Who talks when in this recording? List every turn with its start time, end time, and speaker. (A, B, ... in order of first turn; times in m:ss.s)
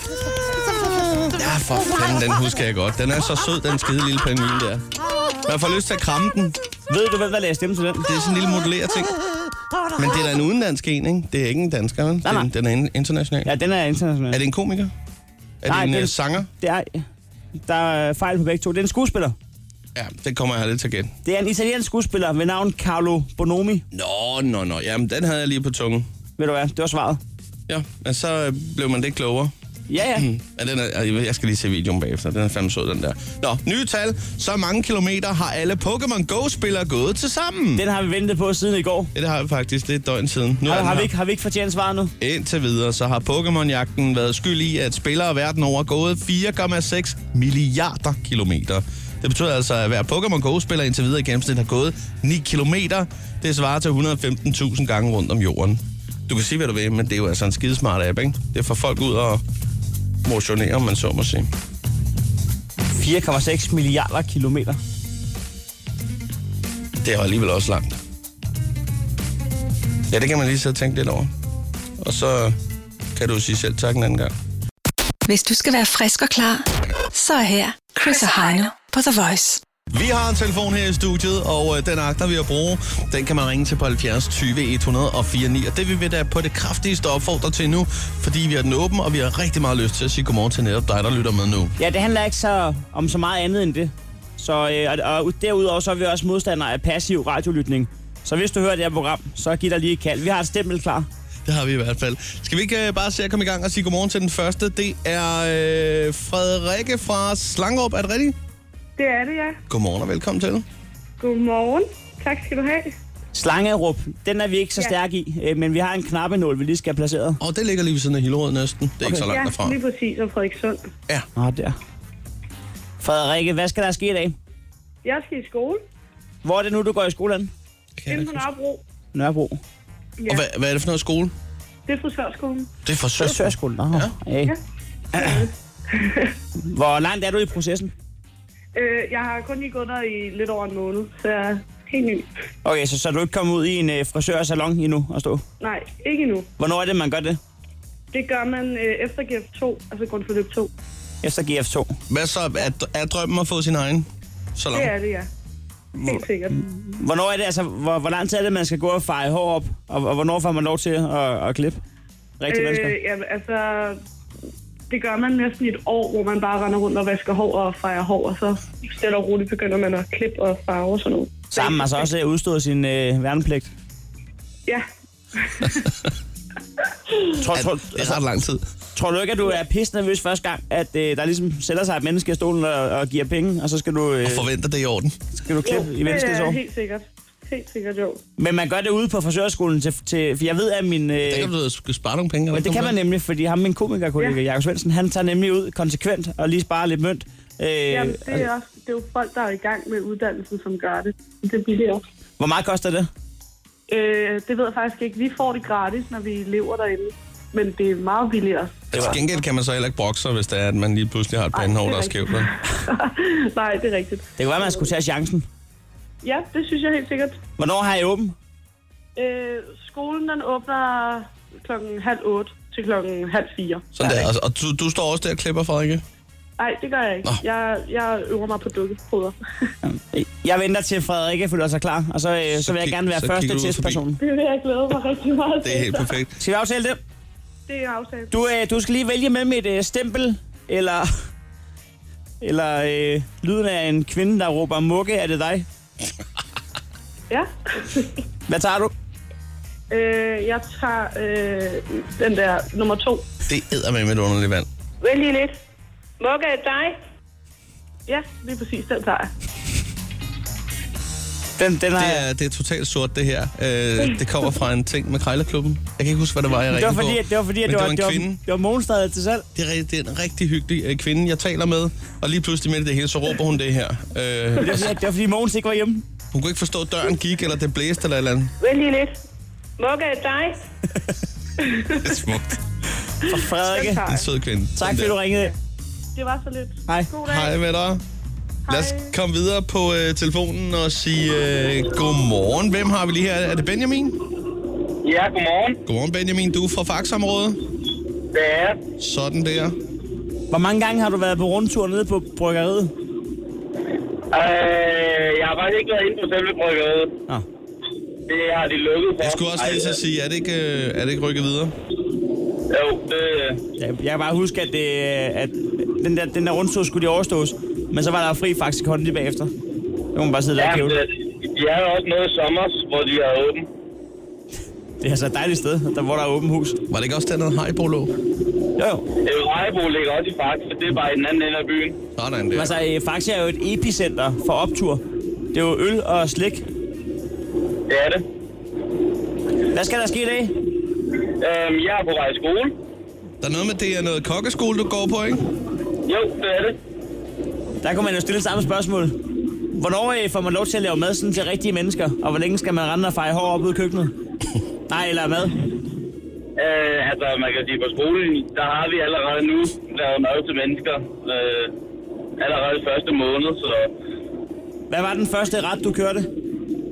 0:00.9-0:04.8 A
0:05.4-0:06.6 A
0:06.9-0:08.1 B
0:08.0-0:09.1 A
0:10.0-0:13.5 A
0:12.2-0:12.5 B
0:13.4-0:14.4 B
0:14.3-0:14.9 A
0:15.6-0:16.5 A
0:15.7-0:17.0 B
0:17.6-0:19.3 B
0:19.9-0:21.1 A
0:21.2-0:23.8 B
0:23.9-0:26.1 A
0:26.4-0:27.2 B
0:27.7-0:29.5 A
0:29.9-0:30.3 B
0:30.1-0:37.8 A
0:37.8-0:39.1 B
0:39.1-0:41.1 A
0:40.6-0:42.1 B
0:42.2-0:59.4 A
1:00.2-1:01.5 A
1:02.9-1:04.8 B
1:07.0-1:08.0 A
1:10.1-1:11.3 A
1:12.0-1:12.6 A
1:13.1-1:14.3 A
1:15.2-1:19.6 C
1:19.9-1:31.7 A
1:31.8-1:41.1 B
1:41.4-1:48.4 A
1:49.0-1:49.6 D
1:49.7-1:50.6 A
1:51.2-1:52.9 D
1:53.3-1:57.4 B
1:57.4-1:59.8 A
1:59.0-1:59.3 B
1:59.3-2:00.8 D
2:01.4-2:01.8 B
2:03.0-2:04.3 B
2:05.0-2:05.8 D
2:06.4-2:07.5 B
2:08.0-2:08.4 A
2:08.1-2:08.8 D
2:09.1-2:09.6 B
2:10.2-2:11.3 A
2:11.9-2:12.7 D
2:12.8-2:14.1 A
2:13.2-2:14.5 B
2:15.1-2:16.3 D
2:16.6-2:17.9 B
2:18.7-2:22.3 D
2:22.6-2:25.4 B
2:25.6-2:26.5 D
2:26.6-2:27.4 B
2:28.1-2:30.7 D
2:31.2-2:32.0 B
2:32.1-2:34.9 A
2:34.7-2:35.3 D
2:36.0-2:41.8 B
2:36.0-2:36.6 D
2:42.4-2:42.9 B
2:42.5-2:44.0 D
2:44.9-2:52.1 D
2:51.5-2:53.7 B
2:54.6-2:55.9 D
2:57.4-2:58.2 B
2:57.5-2:58.6 A
2:58.9-3:04.4 B
3:04.2-3:05.1 A
3:05.4-3:06.6 B
3:05.6-3:08.2 D
3:08.4-3:11.5 B
3:11.2-3:13.0 A
3:12.5-3:18.5 B
3:17.9-3:22.0 D
3:22.4-3:23.1 B
3:23.9-3:29.1 D
3:28.9-3:32.5 A
3:28.9-3:29.2 B
3:31.5-3:34.9 D
3:34.4-3:35.4 B
3:36.2-3:37.4 D
3:37.6-3:38.3 B
3:39.2-3:43.8 D
3:43.9-3:46.0 A
3:46.6-3:49.4 D
3:49.8-3:54.2 B
3:52.5-3:54.0 A
3:54.2-3:56.1 D
3:55.6-3:56.3 A
3:56.4-3:57.0 B
3:57.7-3:58.3 D
3:58.3-4:01.1 B
4:02.4-4:05.6 B
4:07.3-4:08.1 D
4:08.5-4:08.9 B
4:09.9-4:13.2 D
4:13.5-4:14.7 A
4:18.1-4:19.3 D
4:21.6-4:22.2 B
4:22.0-4:28.4 A
4:26.7-4:29.4 B
4:29.5-4:34.9 A
4:34.6-4:36.0 B
4:36.3-4:38.5 A
4:41.6-4:42.2 D
4:42.0-4:42.4 A
4:43.2-4:44.0 B
4:43.6-4:44.2 D
4:44.0-4:45.2 A
4:44.8-4:45.5 B
4:46.2-4:47.5 D
4:47.2-4:48.0 A
4:48.7-4:49.1 D
4:48.7-4:54.2 A
4:55.0-4:55.8 E
4:55.8-4:57.6 A
4:58.3-4:58.8 E
4:59.0-4:59.8 A
5:00.5-5:02.9 B
5:04.3-5:07.1 E
5:08.3-5:10.0 E
5:09.2-5:11.7 A
5:12.7-5:13.6 E
5:13.8-5:19.5 B
5:20.1-5:21.0 B
5:20.6-5:23.7 E
5:25.0-5:26.8 B
5:26.9-5:28.1 A
5:28.8-5:29.0 B
5:29.2-5:32.0 E
5:32.2-5:32.7 A
5:32.5-5:35.0 B
5:35.5-5:36.6 B
5:37.9-5:38.2 E
5:39.7-5:40.5 B
5:41.4-5:42.7 E
5:43.4-5:45.4 A
5:46.0-5:46.8 E
5:47.8-5:49.1 B
5:49.7-5:54.1 B
5:54.9-5:55.6 B
5:56.6-6:01.7 E
6:02.4-6:03.9 E
6:04.9-6:06.2 B